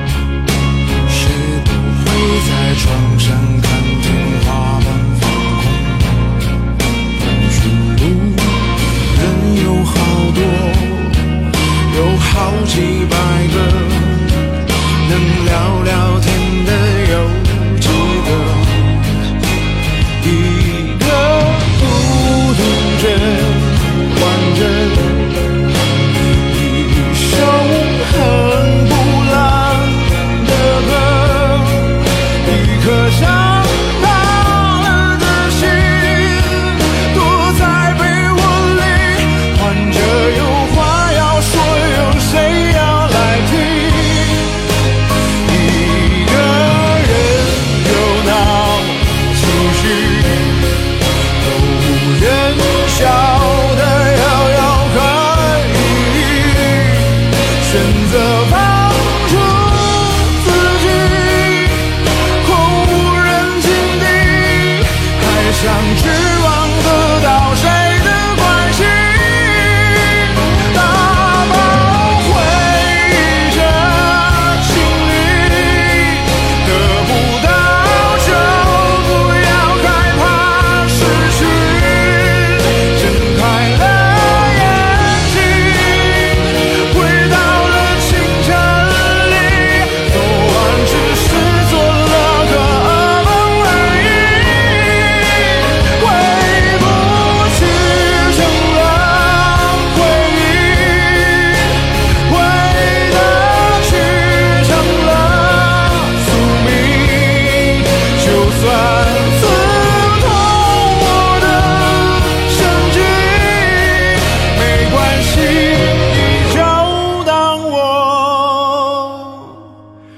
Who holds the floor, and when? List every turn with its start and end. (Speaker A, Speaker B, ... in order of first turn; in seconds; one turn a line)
Speaker A: 1.0-6.5
Speaker A: 7.2-19.3
Speaker A: 20.2-25.6
Speaker A: 26.4-44.6
Speaker A: 45.4-50.7
Speaker A: 51.4-119.7